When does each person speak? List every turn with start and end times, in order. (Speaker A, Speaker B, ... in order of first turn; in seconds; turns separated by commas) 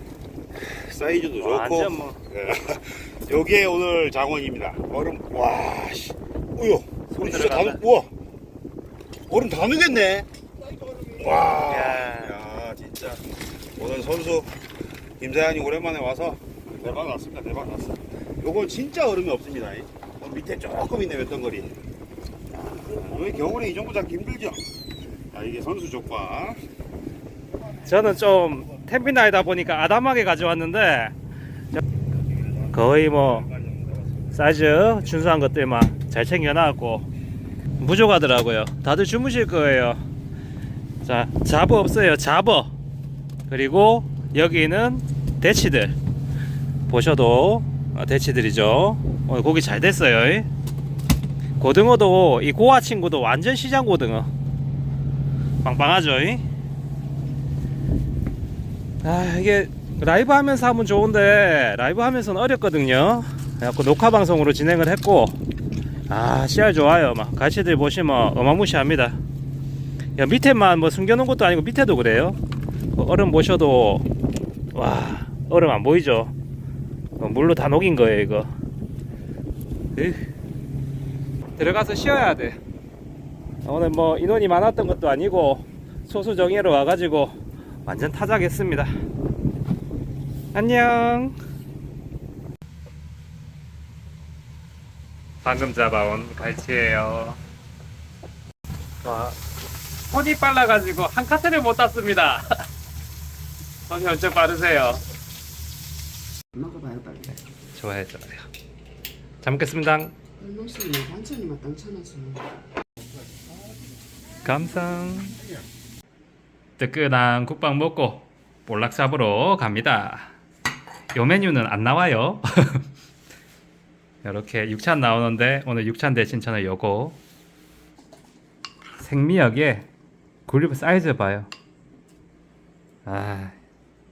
Speaker A: 0.6-8.1, Speaker B: 1.4-2.2, Speaker B: 7.1-7.8, Speaker A: 9.3-10.3, Speaker A: 11.0-13.2, Speaker B: 11.7-12.3, Speaker A: 13.8-14.5, Speaker A: 15.2-21.7, Speaker A: 22.9-24.6, Speaker A: 25.3-26.6, Speaker B: 27.8-31.1, Speaker B: 32.7-33.5, Speaker B: 34.3-37.1, Speaker B: 37.8-40.0, Speaker B: 41.0-42.7, Speaker B: 43.5-46.0, Speaker B: 46.9-50.5, Speaker B: 51.6-54.3, Speaker B: 55.6-56.4, Speaker B: 59.0-65.4, Speaker B: 66.1-69.2, Speaker B: 70.2-72.4, Speaker B: 73.0-74.1, Speaker B: 74.7-76.3, Speaker B: 77.2-78.5, Speaker B: 80.0-80.3, Speaker B: 81.6-82.6, Speaker B: 83.7-88.9, Speaker B: 90.5-91.4, Speaker B: 95.4-97.4, Speaker B: 99.0-99.4, Speaker B: 100.1-102.7, Speaker B: 103.9-105.0, Speaker C: 106.6-107.3, Speaker B: 107.3-108.5, Speaker B: 109.4-110.2, Speaker C: 110.4-112.4, Speaker B: 114.4-115.4, Speaker B: 116.8-120.3, Speaker B: 121.1-122.8, Speaker B: 124.2-127.2, Speaker B: 129.0-129.9, Speaker B: 130.5-131.5, Speaker B: 133.1-133.6